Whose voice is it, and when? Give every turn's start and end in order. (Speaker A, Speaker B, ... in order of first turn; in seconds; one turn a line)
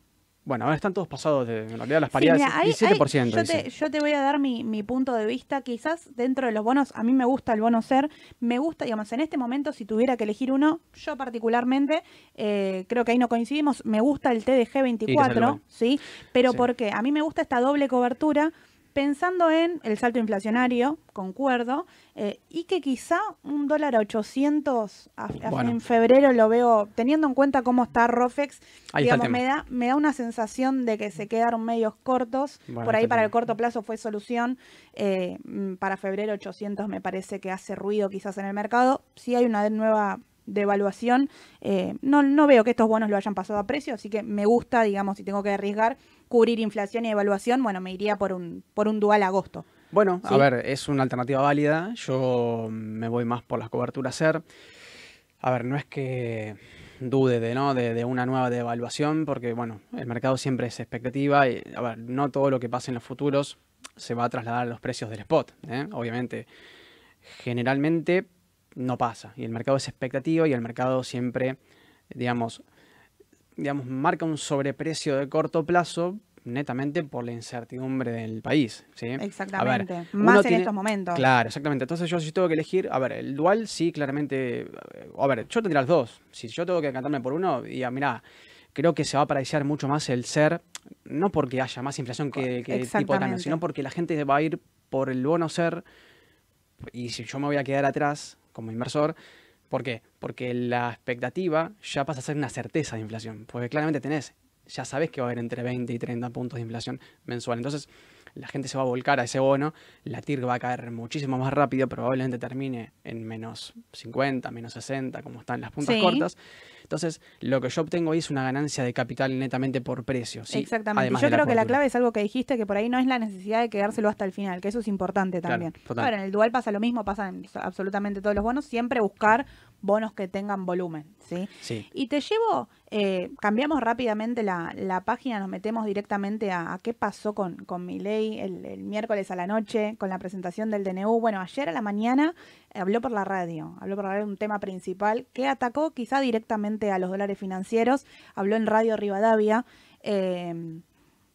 Speaker A: 0.4-3.6
Speaker B: 2.1-49.6
Speaker A: 15.1-15.6
Speaker A: 25.4-25.8
Speaker A: 28.9-29.4
Speaker A: 32.7-33.3
Speaker A: 49.9-54.4
Speaker A: 55.4-66.5
Speaker A: 67.2-71.6
Speaker A: 72.1-72.6
Speaker A: 73.6-88.2
Speaker B: 79.2-81.2
Speaker A: 88.7-95.8
Speaker B: 92.7-93.6
Speaker A: 96.8-99.2
Speaker A: 99.7-121.8
Speaker B: 115.8-116.3
Speaker B: 120.5-150.8
Speaker A: 125.5-126.1
Speaker A: 131.6-131.9